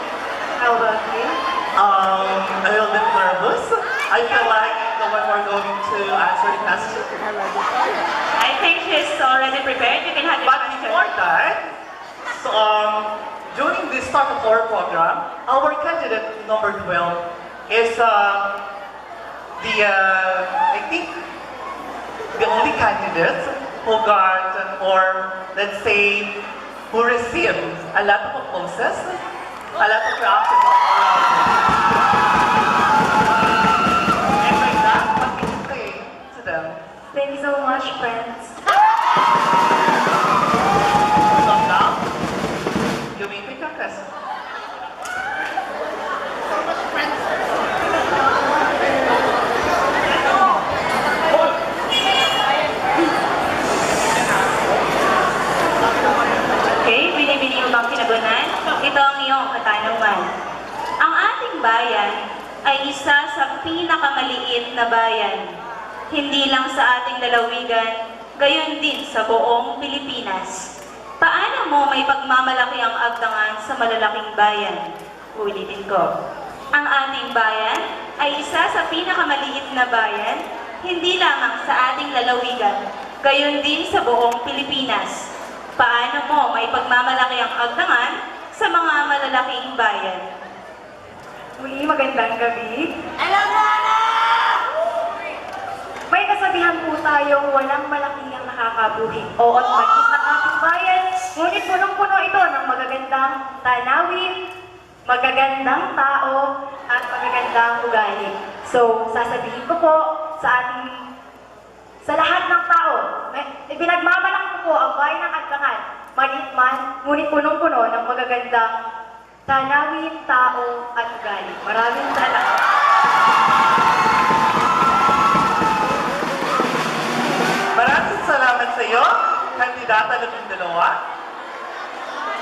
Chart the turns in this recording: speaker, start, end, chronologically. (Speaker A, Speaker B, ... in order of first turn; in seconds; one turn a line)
Speaker A: 0.6-1.3
Speaker B: 1.8-7.1
Speaker C: 8.4-11.1
Speaker B: 10.4-11.6
Speaker B: 12.3-18.5
Speaker B: 19.6-21.1
Speaker B: 22.3-26.3
Speaker B: 26.9-29.2
Speaker B: 29.8-31.8
Speaker B: 34.4-36.8
Speaker A: 37.1-38.5
Speaker B: 41.3-42.0
Speaker B: 43.1-44.1
Speaker C: 56.8-60.3
Speaker C: 61.0-65.4
Speaker C: 66.1-70.7
Speaker C: 71.2-74.8
Speaker C: 75.3-76.1
Speaker C: 76.8-85.2
Speaker C: 85.8-90.2
Speaker A: 91.6-92.9
Speaker A: 96.1-104.3
Speaker A: 105.1-111.0
Speaker A: 112.0-118.8
Speaker A: 119.5-122.6
Speaker B: 127.7-131.0